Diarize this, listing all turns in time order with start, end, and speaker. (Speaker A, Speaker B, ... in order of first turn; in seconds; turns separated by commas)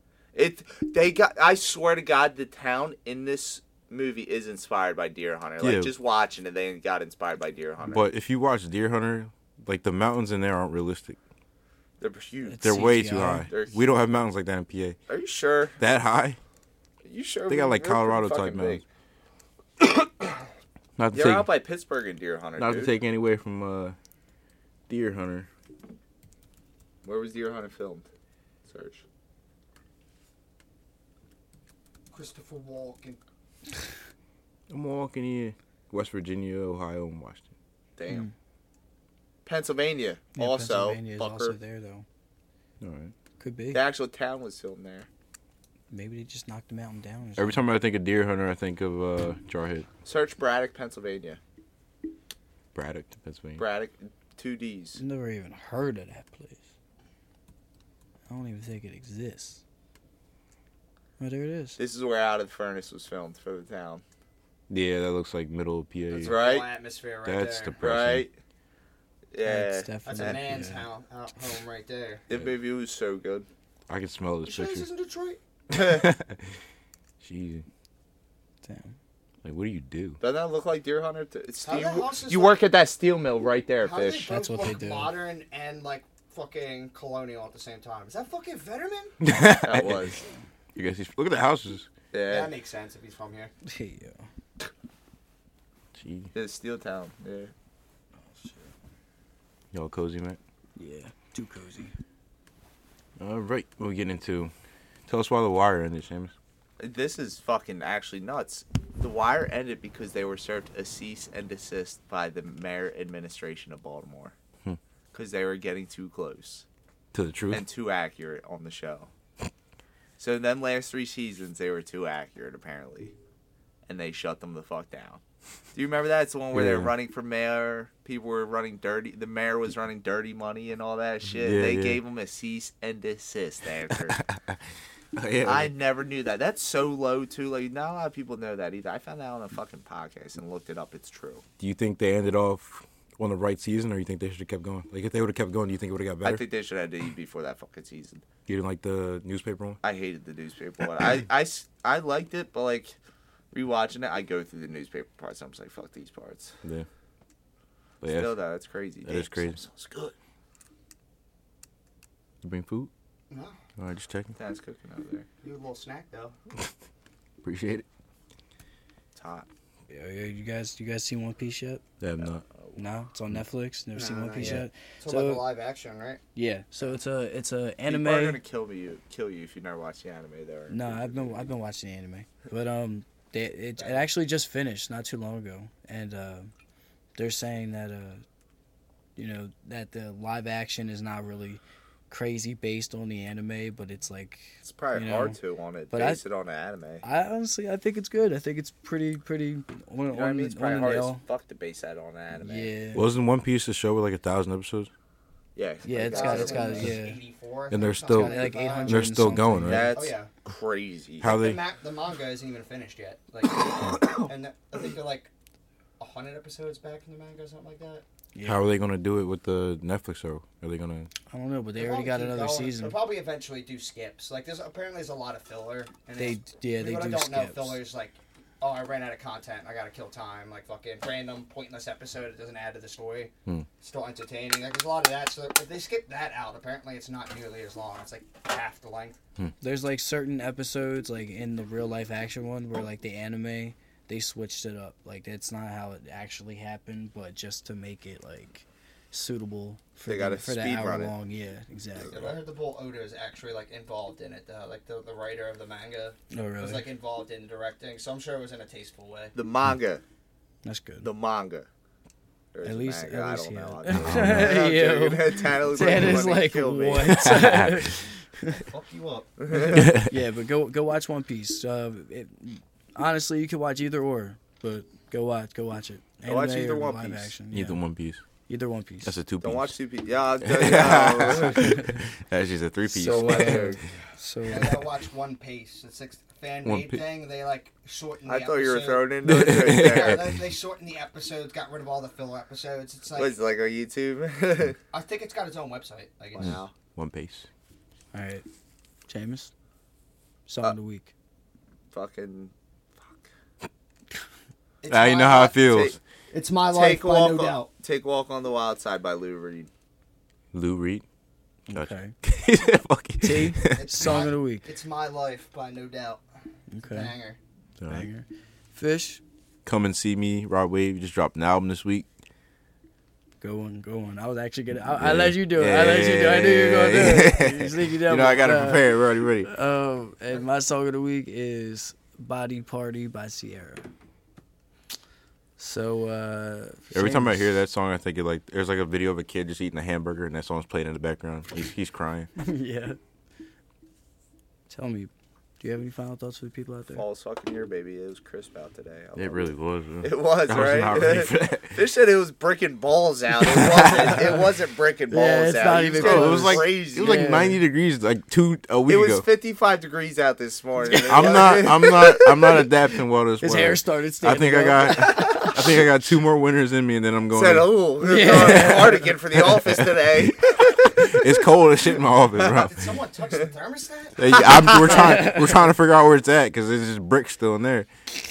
Speaker A: 0.3-8.1, Speaker B: 5.6-5.9, Speaker B: 7.9-11.2, Speaker A: 12.0-12.8, Speaker C: 12.5-13.5, Speaker B: 12.6-15.0, Speaker A: 13.5-13.8, Speaker A: 15.1-15.8, Speaker B: 15.8-16.4, Speaker A: 17.1-18.8, Speaker B: 17.5-18.8, Speaker A: 19.8-20.4, Speaker B: 21.0-21.5, Speaker A: 21.1-22.9, Speaker B: 22.6-24.0, Speaker B: 24.9-25.5, Speaker A: 27.0-28.1, Speaker A: 28.7-29.0, Speaker D: 32.1-33.2, Speaker B: 34.7-37.5, Speaker A: 38.0-38.3, Speaker A: 39.5-41.6, Speaker C: 40.4-42.0, Speaker B: 42.8-43.1, Speaker C: 43.4-43.8, Speaker A: 43.7-45.1, Speaker C: 45.9-47.7, Speaker B: 47.4-49.9, Speaker A: 50.0-51.4, Speaker B: 52.7-53.6, Speaker A: 53.6-55.0, Speaker C: 55.0-56.6, Speaker C: 58.3-59.6, Speaker C: 61.2-61.8, Speaker A: 61.8-64.0, Speaker B: 64.7-66.4, Speaker D: 66.1-67.8, Speaker A: 66.2-66.7, Speaker B: 67.2-68.3, Speaker A: 67.8-68.3, Speaker A: 69.3-70.4, Speaker C: 69.4-70.9, Speaker D: 70.0-72.2, Speaker A: 72.3-73.5, Speaker B: 73.9-74.9, Speaker D: 74.5-75.4, Speaker B: 75.7-76.6, Speaker A: 75.8-76.0, Speaker B: 77.2-77.7, Speaker C: 78.6-79.0, Speaker B: 79.4-80.2, Speaker A: 80.2-84.4, Speaker D: 81.6-82.6, Speaker D: 83.8-89.2, Speaker C: 84.3-85.1, Speaker B: 89.2-90.2, Speaker A: 89.6-90.2, Speaker B: 90.8-91.9, Speaker A: 92.1-92.5, Speaker D: 92.3-93.5, Speaker C: 93.6-94.3, Speaker B: 95.9-96.3, Speaker A: 96.3-97.5, Speaker C: 98.2-98.7, Speaker B: 99.7-100.4, Speaker C: 100.8-102.0, Speaker B: 103.2-104.5, Speaker B: 105.1-106.3, Speaker A: 106.8-114.3, Speaker A: 115.1-116.7, Speaker B: 117.1-117.6, Speaker A: 117.5-119.1, Speaker A: 120.2-123.1, Speaker A: 123.9-125.2, Speaker A: 125.7-134.2, Speaker B: 126.5-126.9, Speaker B: 131.3-132.0, Speaker B: 134.0-134.6, Speaker B: 135.2-135.7, Speaker A: 135.4-141.4, Speaker B: 141.6-146.4, Speaker A: 146.2-148.2, Speaker B: 148.5-149.8, Speaker A: 149.8-153.0, Speaker A: 153.5-156.6, Speaker B: 158.0-158.4, Speaker A: 158.1-160.2, Speaker B: 159.1-159.6, Speaker B: 162.4-162.9, Speaker D: 163.3-163.6, Speaker B: 163.8-164.3, Speaker A: 164.4-165.3, Speaker D: 165.4-166.3, Speaker B: 167.4-167.9, Speaker A: 169.2-169.5, Speaker C: 169.9-171.8, Speaker B: 172.0-172.4, Speaker A: 172.2-172.8, Speaker C: 172.8-175.4, Speaker D: 173.9-176.2, Speaker A: 174.4-174.7, Speaker C: 176.3-178.4, Speaker A: 177.9-181.5, Speaker C: 180.7-186.5, Speaker D: 183.8-184.1, Speaker C: 187.2-188.2, Speaker C: 189.2-195.4, Speaker A: 194.6-197.0, Speaker C: 195.9-196.2, Speaker C: 197.0-201.2, Speaker A: 200.1-202.7, Speaker C: 202.3-203.1, Speaker B: 202.9-204.9, Speaker A: 205.6-206.9, Speaker C: 205.8-207.2, Speaker D: 206.0-209.3, Speaker B: 207.7-210.0, Speaker C: 208.1-209.9, Speaker A: 209.6-211.3, Speaker D: 209.9-210.3, Speaker B: 211.2-211.6, Speaker D: 211.2-215.3, Speaker D: 216.0-218.0, Speaker C: 218.3-218.7, Speaker B: 218.4-221.1, Speaker C: 221.3-223.0, Speaker D: 221.8-239.2, Speaker C: 226.2-227.8, Speaker C: 239.6-252.2, Speaker A: 250.1-251.1, Speaker A: 252.1-252.3, Speaker D: 252.1-259.3, Speaker C: 256.3-256.9, Speaker A: 259.3-260.0, Speaker C: 260.6-261.1, Speaker A: 261.0-261.7, Speaker A: 262.5-267.3, Speaker C: 262.6-268.6, Speaker B: 263.9-264.6, Speaker B: 267.2-267.9, Speaker D: 268.5-269.3, Speaker A: 269.4-269.9, Speaker C: 269.5-277.8, Speaker B: 269.7-270.1, Speaker A: 276.3-277.3, Speaker B: 277.5-278.2, Speaker C: 278.5-279.1, Speaker B: 279.0-279.8, Speaker A: 279.4-281.9, Speaker B: 280.4-283.8, Speaker C: 281.6-281.8, Speaker C: 282.9-284.8, Speaker A: 283.1-283.8, Speaker D: 284.5-293.4, Speaker B: 286.6-287.0, Speaker A: 288.3-290.3, Speaker B: 289.2-290.4, Speaker A: 293.1-294.8, Speaker D: 294.9-296.6, Speaker A: 296.3-296.7, Speaker B: 296.4-297.5, Speaker C: 298.1-298.4, Speaker C: 299.1-299.5, Speaker C: 300.5-301.1, Speaker A: 301.9-303.3, Speaker D: 304.8-305.7, Speaker B: 304.9-306.0, Speaker A: 305.6-306.0, Speaker D: 306.3-307.7, Speaker A: 306.7-309.7, Speaker B: 310.5-311.0, Speaker C: 311.7-312.1, Speaker B: 311.7-314.2, Speaker C: 313.2-314.7, Speaker D: 313.8-316.2, Speaker C: 316.7-317.1, Speaker D: 316.9-317.4, Speaker B: 317.8-318.1, Speaker C: 317.9-319.2, Speaker B: 319.7-322.1, Speaker C: 323.4-333.9, Speaker B: 324.9-329.5, Speaker C: 335.6-337.5, Speaker B: 336.9-342.3, Speaker C: 342.4-343.0, Speaker C: 344.7-347.0, Speaker A: 347.0-357.3, Speaker B: 349.1-351.8, Speaker B: 353.4-354.4, Speaker C: 355.1-357.6, Speaker B: 356.0-359.2, Speaker A: 358.9-362.6, Speaker B: 360.9-367.7, Speaker C: 363.4-365.5, Speaker A: 367.3-371.2, Speaker C: 368.0-369.2, Speaker B: 369.3-373.0, Speaker D: 372.3-374.9, Speaker B: 374.2-377.9, Speaker C: 374.9-375.6